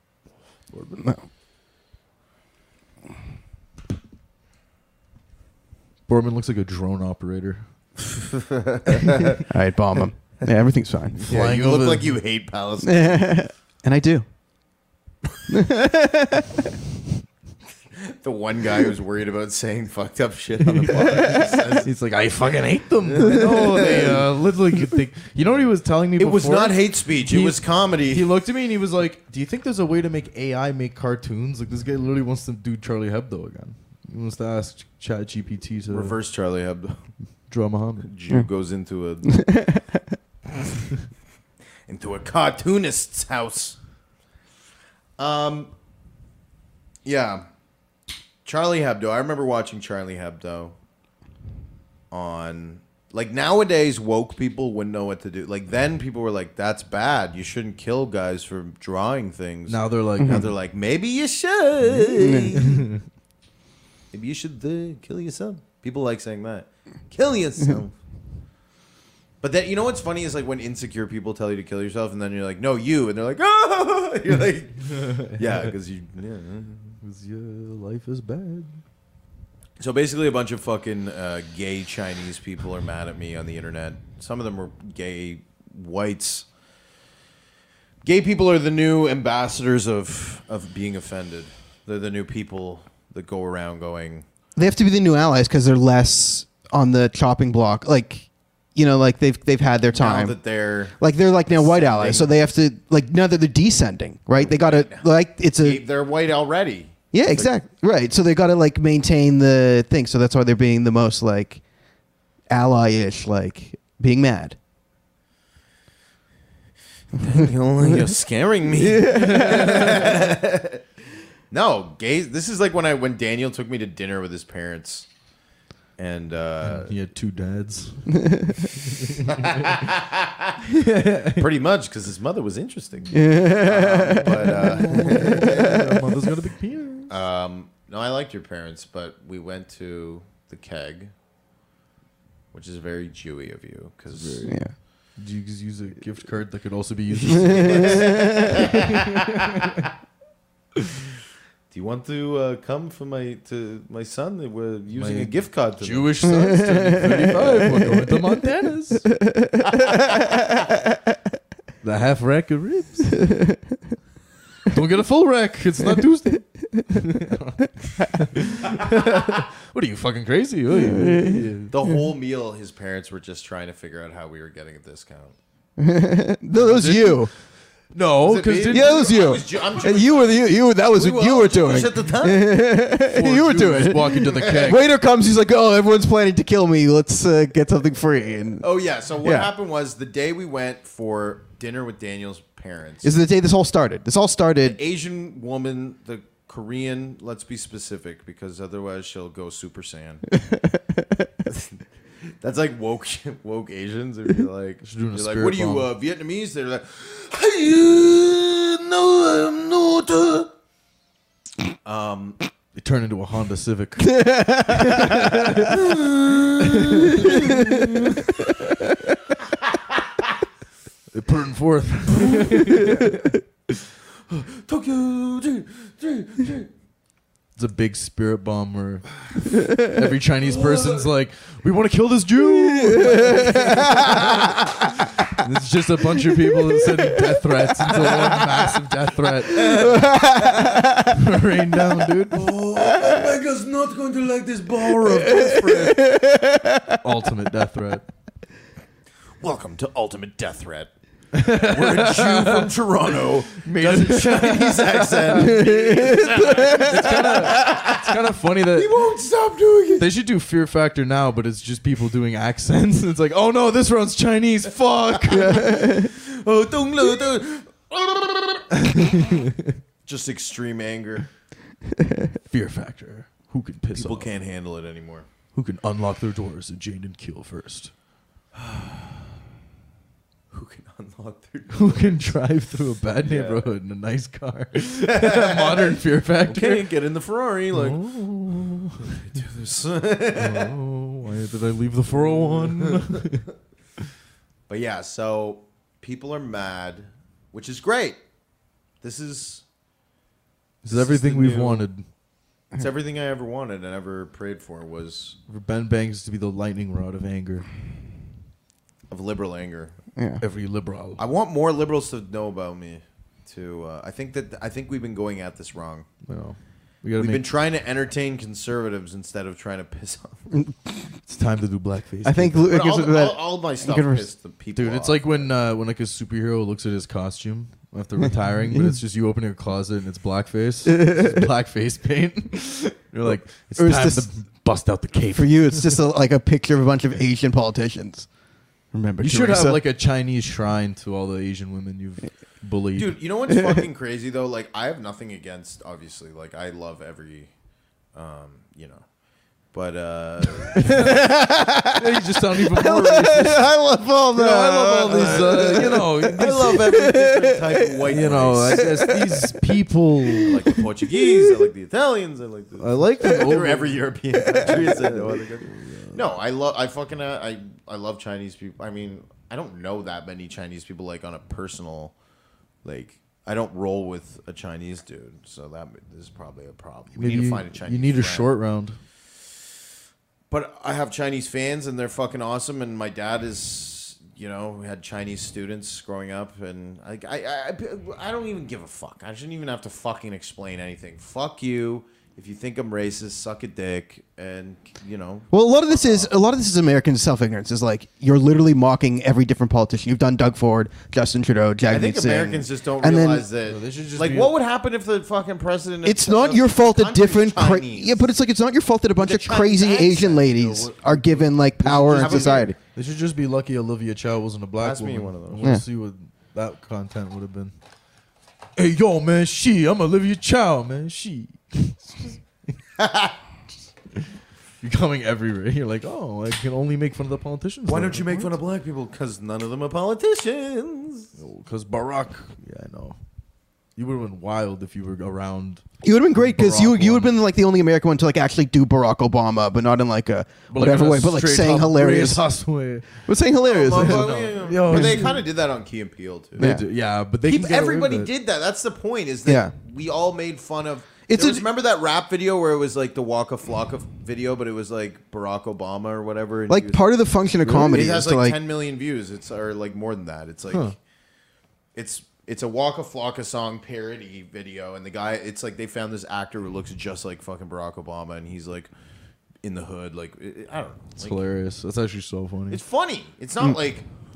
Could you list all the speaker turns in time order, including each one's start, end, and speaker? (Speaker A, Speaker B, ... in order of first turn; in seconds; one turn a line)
Speaker A: 0.9-1.2
Speaker B: 6.1-7.6
Speaker C: 8.3-9.4
Speaker A: 9.5-11.4
Speaker B: 11.2-12.2
Speaker C: 11.2-13.4
Speaker A: 12.8-14.2
Speaker A: 15.5-16.7
Speaker C: 18.0-21.9
Speaker B: 20.8-36.2
Speaker C: 23.1-24.3
Speaker A: 23.2-23.9
Speaker C: 26.2-28.2
Speaker C: 35.9-37.0
Speaker B: 37.5-38.1
Speaker C: 38.0-39.5
Speaker A: 39.3-40.0
Speaker C: 41.9-43.8
Speaker C: 45.2-45.7
Speaker C: 47.0-47.4
Speaker C: 48.4-50.7
Speaker C: 52.1-62.9
Speaker B: 59.7-60.5
Speaker A: 60.2-60.5
Speaker A: 61.9-62.6
Speaker B: 62.5-63.0
Speaker C: 64.1-68.0
Speaker C: 69.4-77.0
Speaker B: 75.2-75.7
Speaker B: 77.0-78.8
Speaker C: 79.8-86.5
Speaker C: 88.0-94.2
Speaker A: 94.5-100.4
Speaker C: 99.9-102.3
Speaker A: 101.0-105.8
Speaker C: 104.4-107.6
Speaker A: 107.1-111.6
Speaker A: 112.5-114.6
Speaker C: 117.2-120.8
Speaker A: 118.8-120.3
Speaker B: 119.1-120.1
Speaker C: 121.5-125.1
Speaker C: 126.0-126.9
Speaker B: 126.6-129.6
Speaker A: 128.2-128.5
Speaker C: 129.2-130.6
Speaker B: 130.7-131.4
Speaker C: 131.2-135.9
Speaker A: 133.1-136.0
Speaker B: 134.4-137.1
Speaker C: 137.1-141.1
Speaker C: 142.5-144.5
Speaker B: 144.1-149.7
Speaker A: 144.4-144.7
Speaker C: 147.4-149.8
Speaker A: 147.5-148.6
Speaker C: 151.7-156.2
Speaker B: 154.9-159.1
Speaker A: 156.2-158.4
Speaker A: 159.1-160.8
Speaker B: 161.8-163.2
Speaker A: 163.2-163.6
Speaker B: 164.7-171.7
Speaker A: 166.7-167.2
Speaker A: 170.7-172.0
Speaker C: 171.7-175.4
Speaker A: 175.8-177.3
Speaker B: 176.5-177.3
Speaker B: 177.9-179.1
Speaker C: 178.2-182.7
Speaker A: 178.7-188.6
Speaker B: 183.1-184.8
Speaker C: 184.3-184.7
Speaker C: 188.6-193.2
Speaker A: 189.2-189.5
Speaker A: 193.0-194.8
Speaker C: 194.6-200.3
Speaker A: 200.4-201.0
Speaker C: 201.4-201.8
Speaker C: 202.4-210.5
Speaker B: 204.8-205.9
Speaker C: 211.8-212.4
Speaker B: 212.7-215.8
Speaker A: 214.1-215.7
Speaker C: 215.2-218.5
Speaker B: 216.6-217.6
Speaker A: 217.1-218.2
Speaker C: 219.4-220.2
Speaker B: 221.1-223.3
Speaker A: 222.8-223.3
Speaker C: 224.3-226.7
Speaker B: 227.6-234.7
Speaker C: 230.4-231.1
Speaker A: 232.5-234.6
Speaker B: 235.2-240.2
Speaker A: 236.4-238.2
Speaker C: 239.5-240.1
Speaker A: 239.6-241.2
Speaker B: 241.0-242.5
Speaker C: 242.3-246.0
Speaker A: 242.8-243.3
Speaker A: 245.0-247.0
Speaker B: 247.0-248.0
Speaker C: 249.4-250.9
Speaker B: 251.3-259.0
Speaker C: 251.4-258.1
Speaker A: 255.3-257.9
Speaker C: 258.7-260.1
Speaker B: 259.9-265.9
Speaker A: 265.3-266.1
Speaker C: 265.4-269.1
Speaker B: 268.8-269.7
Speaker C: 270.1-271.3
Speaker B: 272.5-274.3
Speaker C: 273.9-275.3
Speaker B: 275.5-277.9
Speaker C: 278.6-279.1
Speaker C: 280.5-282.3
Speaker B: 281.7-286.9
Speaker C: 283.2-283.7
Speaker C: 285.1-288.0
Speaker B: 287.7-289.1
Speaker C: 289.0-290.8
Speaker B: 290.4-293.5
Speaker C: 292.1-293.2
Speaker C: 294.7-298.2
Speaker C: 299.0-299.6
Speaker B: 300.8-302.0
Speaker C: 300.9-301.9
Speaker C: 302.7-305.4
Speaker B: 305.5-307.7
Speaker C: 309.1-309.9
Speaker A: 310.1-310.4
Speaker B: 310.4-311.2
Speaker C: 311.2-316.1
Speaker B: 316.2-317.5
Speaker C: 317.2-320.5
Speaker B: 321.3-322.6
Speaker A: 322.2-324.3
Speaker C: 322.6-325.5
Speaker B: 324.7-336.0
Speaker A: 328.7-329.0
Speaker A: 330.9-331.4
Speaker A: 333.3-334.3
Speaker A: 335.3-338.3
Speaker A: 338.9-339.8
Speaker B: 339.2-343.2
Speaker C: 342.9-347.5
Speaker C: 348.1-349.1
Speaker C: 349.7-350.9
Speaker A: 350.8-357.6
Speaker B: 350.9-351.2
Speaker B: 351.9-353.8
Speaker B: 354.3-357.1
Speaker C: 355.2-359.1
Speaker B: 358.1-360.6
Speaker A: 358.7-359.7
Speaker A: 360.3-361.4
Speaker C: 360.4-372.1
Speaker B: 362.8-366.2
Speaker A: 364.4-364.8
Speaker C: 372.8-378.5
Speaker B: 377.1-379.0
Speaker C: 380.5-396.3
Speaker A: 395.5-403.4
Speaker C: 401.9-408.2
Speaker B: 403.6-404.5
Speaker A: 406.0-412.8
Speaker C: 409.2-412.7
Speaker B: 411.8-417.7
Speaker C: 414.8-415.7
Speaker B: 418.8-422.4
Speaker C: 423.0-423.3
Speaker B: 424.8-428.6
Speaker C: 427.9-431.3
Speaker B: 431.4-433.2
Speaker B: 433.9-437.3
Speaker A: 436.0-442.4
Speaker B: 440.7-443.3
Speaker A: 443.2-445.4
Speaker C: 443.7-446.7
Speaker B: 443.9-445.4
Speaker B: 446.6-448.3
Speaker A: 446.6-446.9
Speaker C: 447.4-460.9
Speaker A: 449.4-449.7
Speaker A: 451.3-451.6
Speaker A: 456.7-458.6
Speaker B: 460.7-460.9
Speaker C: 461.9-468.9
Speaker C: 469.6-471.4
Speaker B: 471.2-472.8
Speaker C: 472.7-474.1